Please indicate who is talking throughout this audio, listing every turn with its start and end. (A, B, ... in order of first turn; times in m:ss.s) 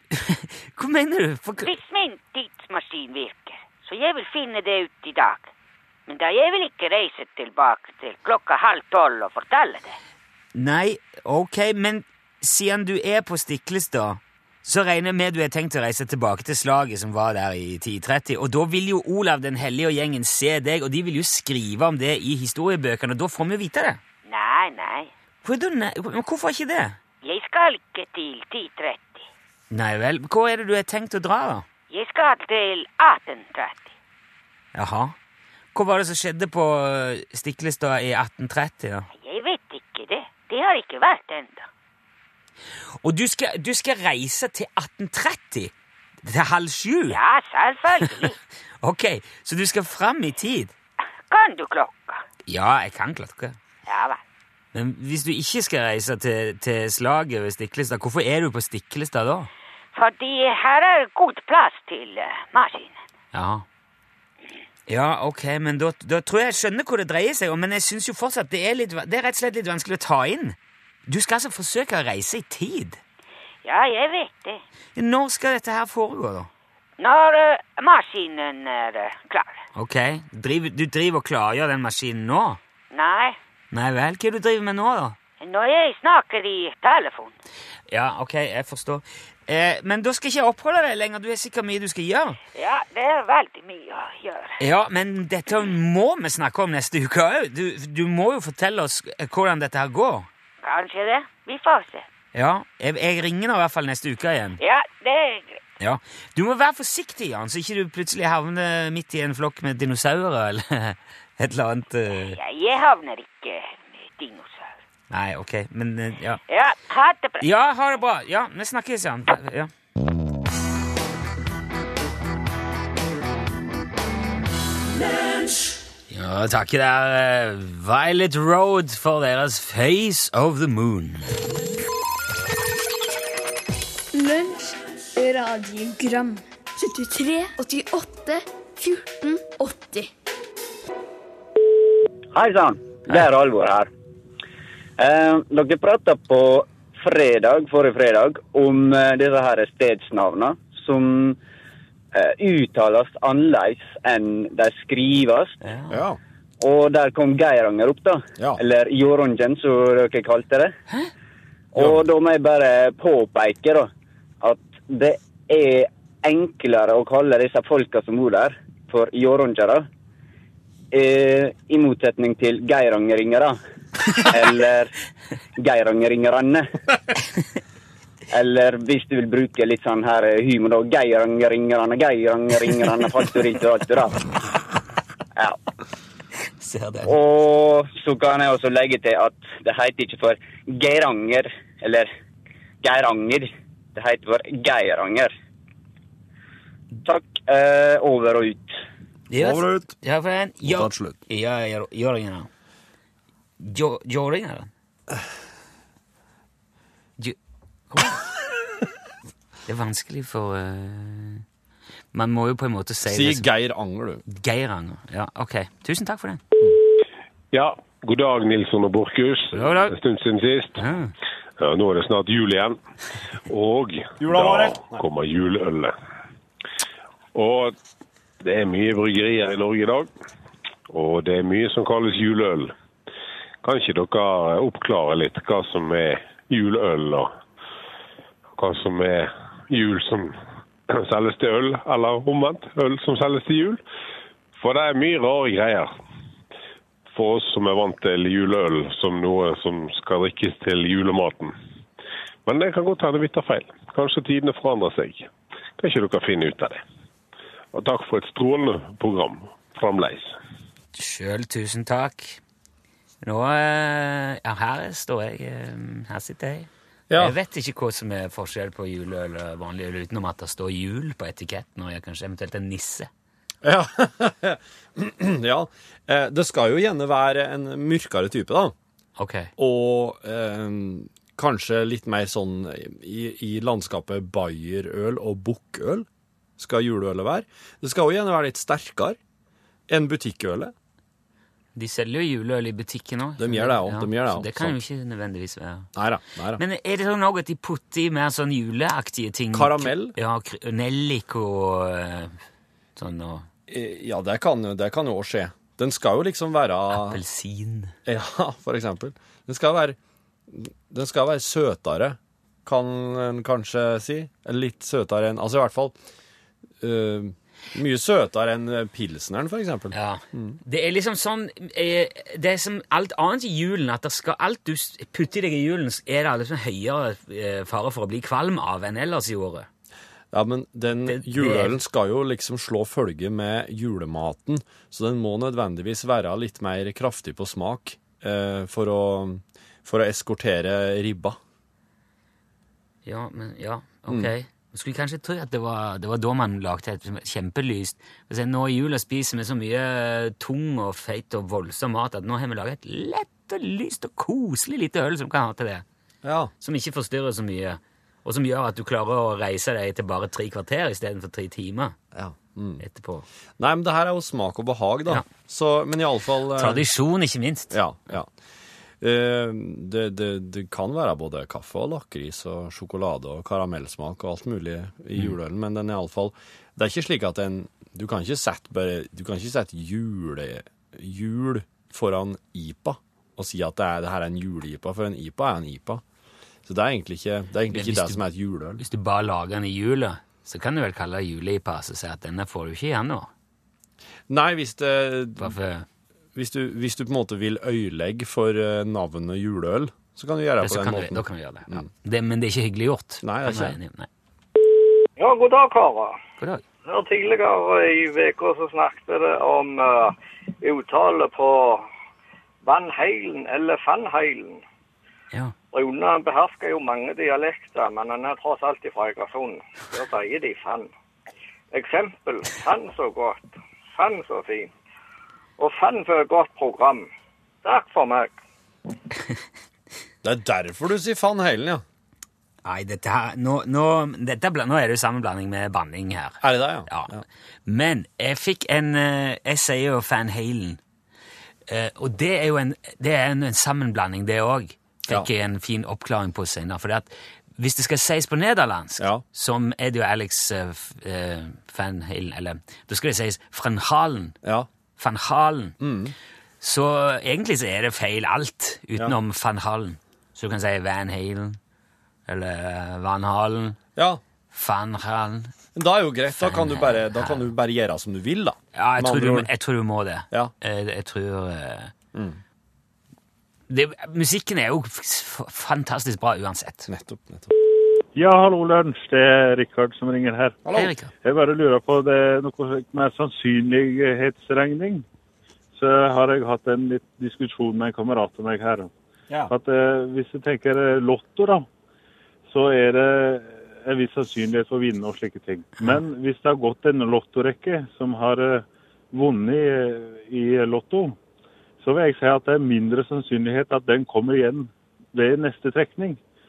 0:00.1-0:01.7 A
0:01.6-0:05.5 B
0:06.1-0:10.0 B
0:10.5-0:24.0 A
0:24.3-0:25.1 B
0:25.4-0:27.0 A
0:27.2-0:29.3 B
0:29.7-0:31.7 A
0:31.9-0:33.9 B
0:34.7-0:35.2 A
0:35.7-0:39.1 A
0:39.1-0:41.7 B
0:43.0-0:47.2 A
0:47.1-0:48.4 B
0:48.8-0:50.7 A
0:51.3-0:52.2 B
0:52.5-0:53.6 A
0:53.9-0:54.2 B
0:54.7-0:59.5 A
0:59.9-1:03.0 B
1:03.3-1:03.6 A
1:04.9-1:13.0 A
1:13.6-1:14.6 B
1:15.0-1:16.5 A
1:17.0-1:19.6 B
1:19.8-1:22.6 A
1:22.9-1:23.4 B
1:23.7-1:25.2 A
1:25.4-1:27.4 B
1:27.9-1:32.4 A
1:32.5-1:34.6 B
1:34.6-1:40.3 A
1:40.6-1:42.1 B
1:42.3-1:44.6 A
1:44.6-1:45.6 B
1:45.8-1:52.4 A
1:52.3-1:54.7 B
1:55.1-1:56.4 A
1:56.5-1:57.5 B
1:57.4-1:59.7 A
2:06.1-2:11.3 A
2:14.1-2:20.1 C
2:22.3-2:23.9 D
2:25.0-2:31.4 D
2:32.1-2:35.6 D
2:35.6-2:36.0 A
2:35.9-2:36.2 E
2:36.6-2:40.7 D
2:41.7-2:43.9 D
2:41.8-2:42.0 E
2:44.4-2:49.9 D
2:50.9-2:53.6 D
2:54.1-2:54.9 D
2:55.6-2:56.7 D
2:58.3-3:04.3 D
3:06.6-3:07.1 A
3:07.1-3:12.1 D
3:12.8-3:15.3 D
3:17.0-3:18.8 D
3:19.3-3:22.5 A
3:19.4-3:20.0 E
3:20.6-3:21.2 E
3:23.6-3:24.7 A
3:27.9-3:28.3 A
3:29.7-3:31.4 A
3:32.1-3:33.5 A
3:33.0-3:34.2 E
3:34.3-3:36.4 A
3:37.5-3:40.8 F
3:39.5-3:40.0 A
3:40.8-3:41.1 A
3:41.6-3:42.8 F
3:43.5-3:46.0 F
3:44.2-3:45.0 E
3:47.3-3:47.8 F
3:48.4-3:50.1 F
3:50.9-3:52.7 F
3:53.6-3:57.3 F
3:58.6-4:03.8 F
4:04.6-4:06.0 F
4:07.1-4:11.6 F
4:12.5-4:16.8 F
4:17.7-4:20.4 F
4:21.0-4:22.4 A
4:23.2-4:33.1 A
4:27.1-4:27.4 E
4:33.6-4:38.8 E
4:39.2-4:39.5 A
4:39.6-4:46.1 E
4:46.6-4:49.2 E
4:49.9-4:50.7 E
4:51.8-4:55.9 A
4:53.4-4:54.8 E
4:56.0-4:56.6 E
4:56.6-5:02.4 A
4:59.5-5:00.2 E
5:03.0-5:03.5 A
5:03.7-5:07.2 E
5:06.9-5:08.0 A
5:08.1-5:10.0 E
5:10.5-5:16.0 E
5:16.8-5:20.6 E
5:19.9-5:29.7 A
5:30.3-5:41.4 E
5:31.1-5:31.8 A
5:43.0-5:55.8 A
5:56.2-5:56.5 E
5:56.6-6:02.0 A
6:02.1-6:02.8 E
6:02.8-6:03.3 A
6:03.6-6:06.9 E
6:06.6-6:07.8 A
6:07.7-6:08.3 E
6:09.0-6:26.0 E
6:26.7-6:28.8 E
6:27.7-6:28.2 A
6:28.8-6:33.3 A
6:34.3-6:35.6 E
6:35.4-6:35.9 A
6:36.4-6:41.9 E
6:40.6-6:44.1 A
6:43.2-6:43.8 E
6:45.2-6:46.2 G
6:46.8-6:51.8 G
6:52.6-6:54.6 G
6:55.7-7:00.9 G
7:01.7-7:04.7 G
7:05.6-7:07.1 G
7:07.6-7:08.4 G
7:10.2-7:11.8 E
7:12.6-7:20.8 A
7:16.4-7:17.2 E
7:21.7-7:34.4 A
7:29.0-7:29.2 E
7:34.4-7:34.7 E
7:35.0-7:35.8 A
7:35.8-7:36.2 E
7:36.6-7:41.6 A
7:42.3-7:43.8 A
7:44.0-7:44.2 E
7:44.5-7:45.5 A
7:45.8-7:49.5 E
7:46.3-7:47.5 A
7:48.7-7:51.9 A
7:52.1-7:52.4 E
7:53.7-7:56.9 A
7:56.9-7:57.5 E
7:58.2-8:00.6 H
8:00.6-8:00.9 E
8:00.7-8:01.1 A
8:01.2-8:05.0 H
8:05.7-8:08.9 H
8:09.5-8:11.7 H
8:12.5-8:21.2 H
8:21.8-8:26.2 H